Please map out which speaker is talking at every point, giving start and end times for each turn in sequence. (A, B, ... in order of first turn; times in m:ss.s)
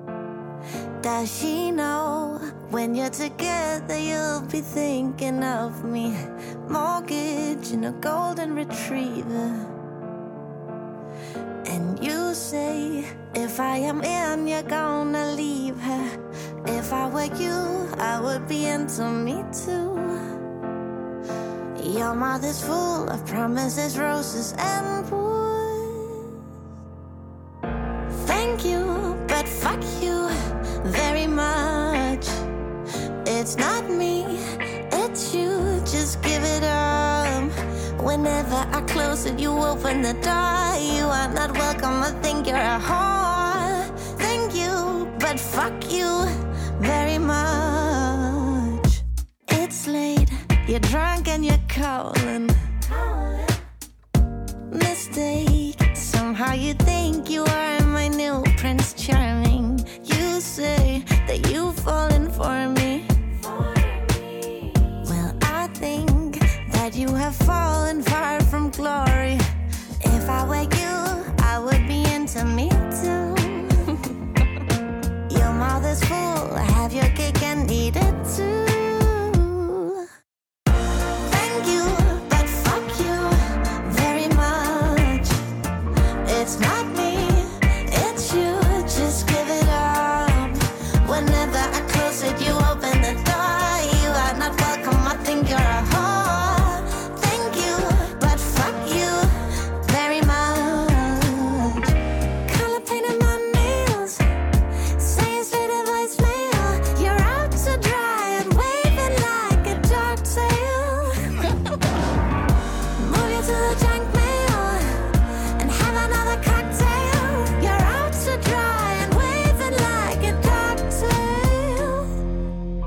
0:01.0-0:09.7 A
0:11.7-0:16.1 A
0:16.7-0:20.2 A
0:21.8-0:26.3 A
0:28.1-0:32.4 A
0:33.2-0:53.6 A
0:54.7-1:09.4 A
1:10.0-1:14.0 A
1:15.3-1:20.0 A
1:21.3-1:25.4 A
1:26.2-1:41.9 A
1:42.5-1:44.2 A
1:45.0-1:51.4 A
1:53.0-1:55.0 A
1:55.6-2:02.1 A